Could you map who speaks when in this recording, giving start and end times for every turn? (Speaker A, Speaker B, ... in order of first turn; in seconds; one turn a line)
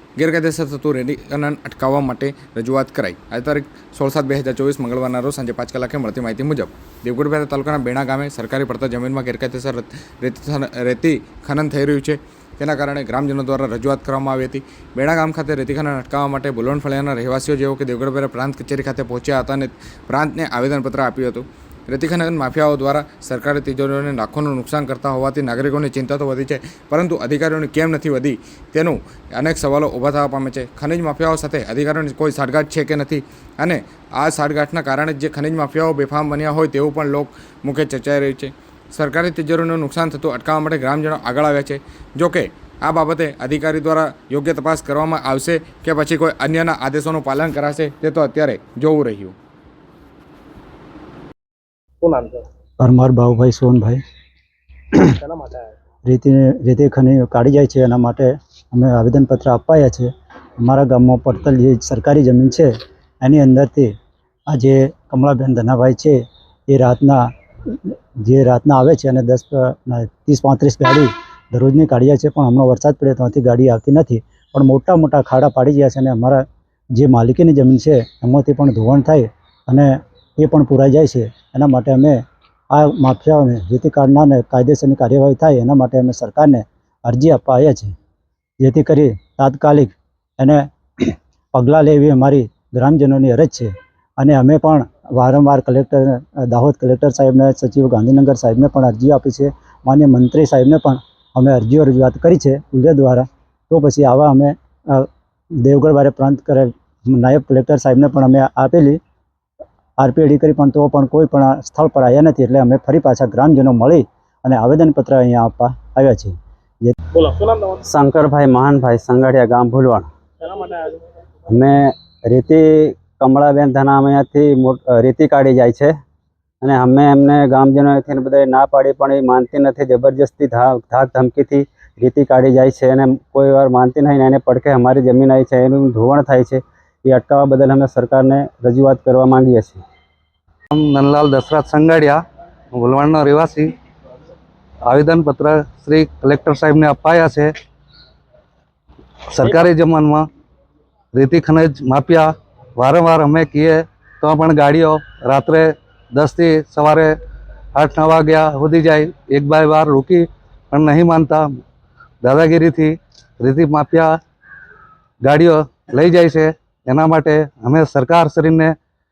Speaker A: 0.2-49.4
Speaker B: 52.0-52.5
Speaker C: 52.8-54.0
Speaker B: 55.2-55.7
Speaker C: 56.1-60.1
Speaker C: 60.6-63.9
Speaker C: 64.5-76.4
Speaker C: 77.0-87.9
Speaker C: 88.6-105.1
Speaker C: 105.6-109.0
Speaker C: 110.0-117.0
Speaker B: 117.1-117.8
Speaker D: 117.9-120.1
Speaker B: 120.4-121.0
Speaker D: 121.5-126.0
Speaker D: 126.6-139.8
Speaker E: 140.7-142.2
Speaker E: 142.7-143.7
Speaker E: 144.9-147.5
Speaker E: 149.3-150.3
Speaker E: 151.1-157.2
Speaker E: 157.8-161.4
Speaker E: 162.2-164.1
Speaker E: 165.2-168.7